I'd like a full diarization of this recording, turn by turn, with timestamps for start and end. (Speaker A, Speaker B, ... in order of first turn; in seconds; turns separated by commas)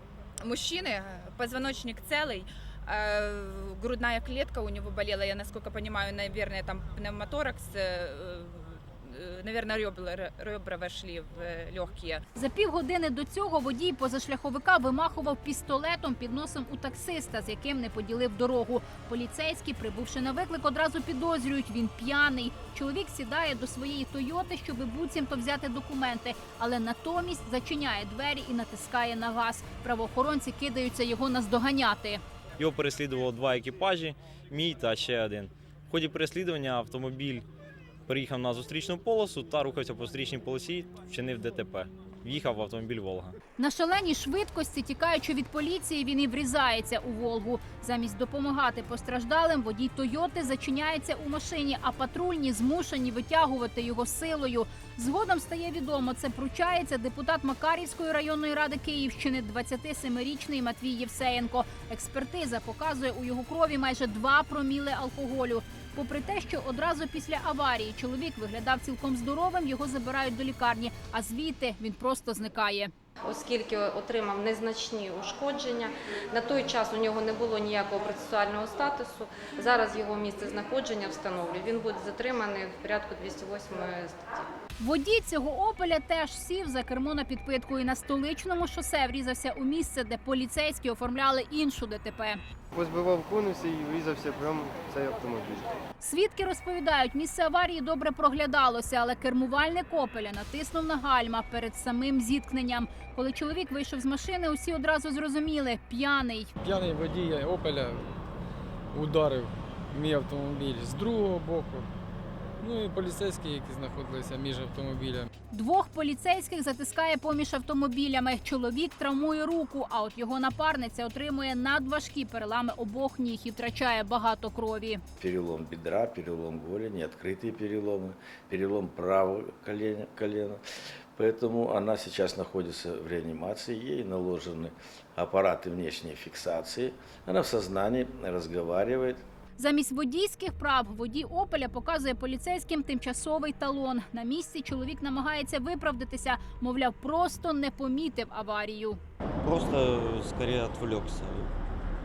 Speaker A: 0.4-12.2, Speaker B: 12.3-32.2, Speaker C: 32.6-37.5, Speaker C: 38.1-43.4, Speaker B: 43.6-72.9, Speaker D: 73.3-84.4, Speaker B: 84.8-92.4, Speaker E: 92.7-95.7, Speaker B: 96.0-106.5, Speaker F: 106.6-108.1, Speaker F: 108.9-111.9, Speaker F: 112.6-115.3, Speaker B: 115.5-125.0, Speaker G: 125.2-130.6, Speaker G: 131.2-139.2, Speaker B: 139.6-149.0, Speaker H: 149.4-151.5